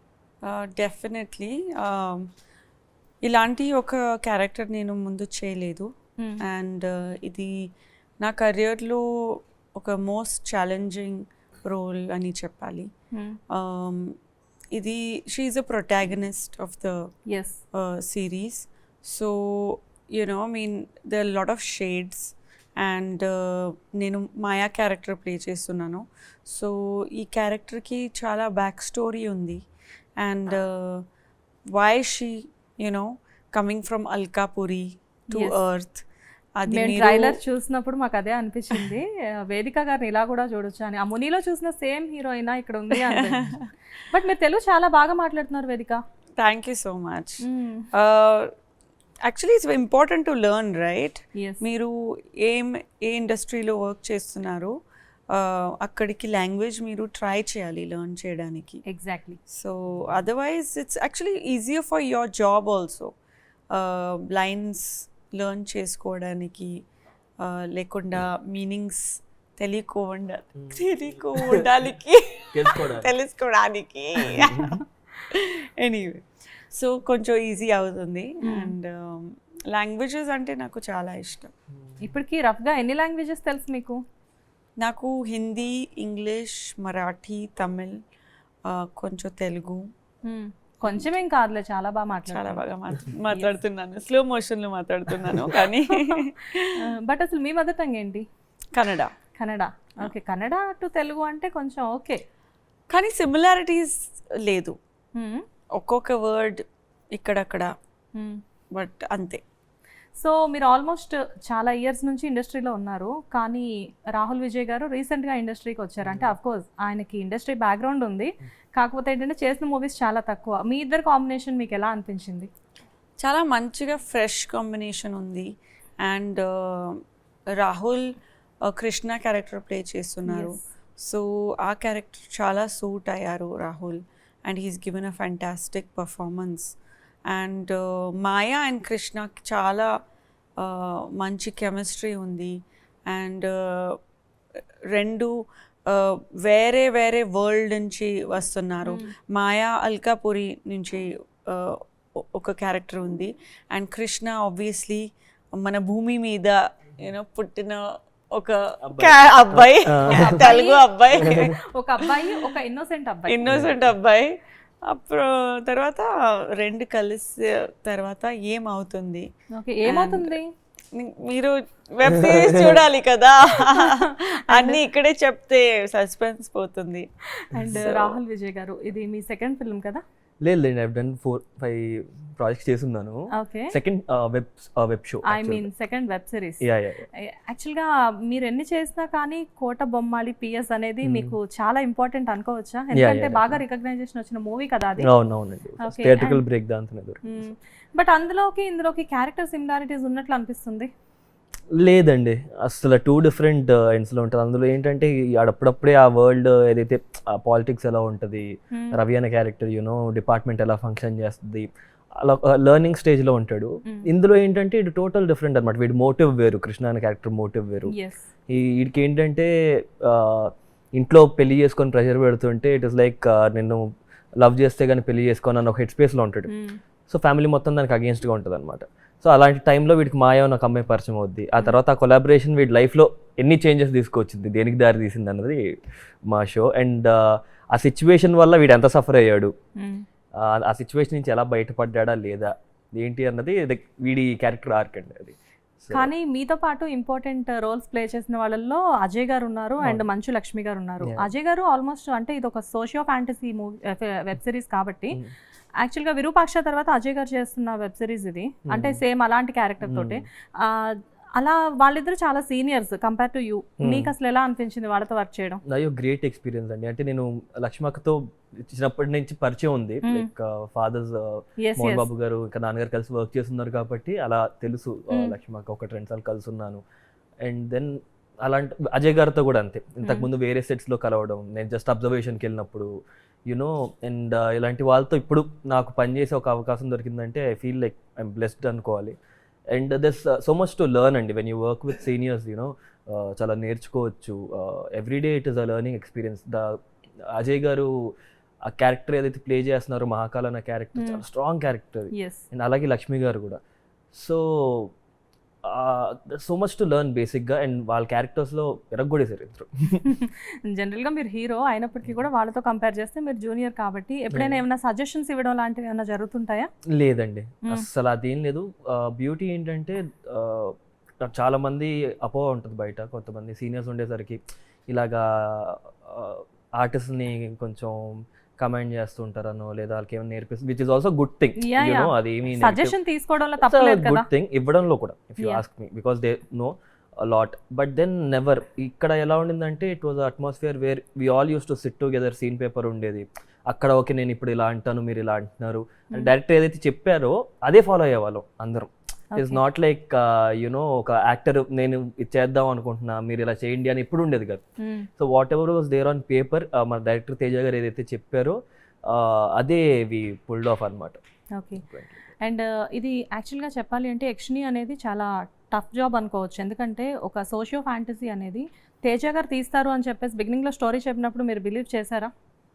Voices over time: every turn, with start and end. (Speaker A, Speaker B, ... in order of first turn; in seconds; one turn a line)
Speaker A: 0.5-2.3
Speaker A: 3.2-5.9
Speaker A: 6.5-7.7
Speaker A: 8.2-12.9
Speaker A: 13.5-14.2
Speaker A: 14.7-17.1
Speaker B: 17.3-17.6
Speaker A: 17.7-29.6
Speaker A: 30.2-31.0
Speaker A: 31.7-37.4
Speaker B: 36.7-43.4
Speaker A: 42.9-43.7
Speaker B: 44.0-46.0
Speaker A: 46.4-47.4
Speaker B: 47.4-47.9
Speaker A: 47.9-48.5
Speaker A: 49.2-54.7
Speaker B: 51.4-51.6
Speaker A: 55.3-58.8
Speaker B: 58.9-59.4
Speaker A: 59.5-63.1
Speaker A: 63.7-66.8
Speaker A: 67.4-81.5
Speaker C: 72.5-73.1
Speaker C: 74.3-74.6
Speaker B: 78.4-78.7
Speaker B: 82.0-84.0
Speaker A: 84.8-88.0
Speaker A: 88.7-89.9
Speaker B: 90.2-92.6
Speaker A: 92.2-96.7
Speaker B: 95.9-96.2
Speaker B: 96.7-98.2
Speaker A: 98.7-99.1
Speaker B: 99.4-102.2
Speaker A: 102.9-104.8
Speaker B: 105.2-105.4
Speaker A: 105.8-106.6
Speaker A: 107.2-107.7
Speaker A: 108.7-109.4
Speaker B: 110.2-122.5
Speaker A: 123.2-125.5
Speaker A: 126.0-127.0
Speaker A: 127.5-128.1
Speaker A: 128.7-136.8
Speaker B: 130.3-130.7
Speaker A: 137.3-139.9
Speaker A: 140.6-144.0
Speaker A: 144.9-145.3
Speaker A: 145.9-162.5
Speaker B: 148.8-149.1
Speaker C: 158.9-160.4
Speaker B: 160.1-163.5
Speaker A: 163.3-169.3
Speaker B: 169.5-170.5
Speaker A: 169.8-170.4
Speaker A: 170.9-177.1
Speaker C: 172.2-172.8
Speaker B: 173.7-174.8
Speaker B: 177.4-180.0
Speaker A: 177.6-178.2
Speaker C: 180.4-185.7
Speaker B: 183.3-183.7
Speaker B: 185.3-186.6
Speaker C: 186.6-187.1
Speaker B: 187.3-195.1
Speaker C: 191.0-191.3
Speaker C: 192.9-193.6
Speaker C: 195.0-197.4
Speaker B: 195.8-196.4
Speaker B: 197.2-200.9
Speaker C: 201.8-217.9
Speaker B: 208.7-209.0
Speaker B: 217.9-218.3
Speaker C: 218.5-223.8
Speaker C: 224.3-226.5
Speaker B: 226.5-226.8
Speaker C: 227.1-235.7
Speaker C: 236.3-239.5
Speaker B: 239.8-240.0
Speaker C: 240.3-246.1
Speaker B: 245.9-255.2
Speaker C: 251.0-251.3
Speaker B: 255.8-265.6
Speaker C: 258.7-259.0
Speaker C: 259.8-260.2
Speaker C: 263.8-264.1
Speaker C: 265.6-276.8
Speaker B: 271.6-272.1
Speaker B: 275.1-275.4
Speaker C: 277.4-277.9
Speaker C: 278.4-282.9
Speaker B: 280.0-280.3
Speaker C: 283.5-289.1
Speaker C: 289.7-298.1
Speaker C: 298.6-303.6
Speaker B: 300.9-301.2
Speaker B: 302.1-302.4
Speaker C: 304.1-304.9
Speaker C: 305.6-310.0
Speaker B: 310.0-316.7
Speaker C: 314.3-314.6
Speaker C: 316.9-332.9
Speaker B: 331.6-334.3
Speaker C: 333.6-354.6
Speaker B: 335.4-335.6
Speaker B: 349.3-349.6
Speaker B: 354.8-355.1
Speaker C: 355.2-361.2
Speaker B: 361.6-361.8
Speaker C: 361.8-362.1
Speaker B: 362.4-372.3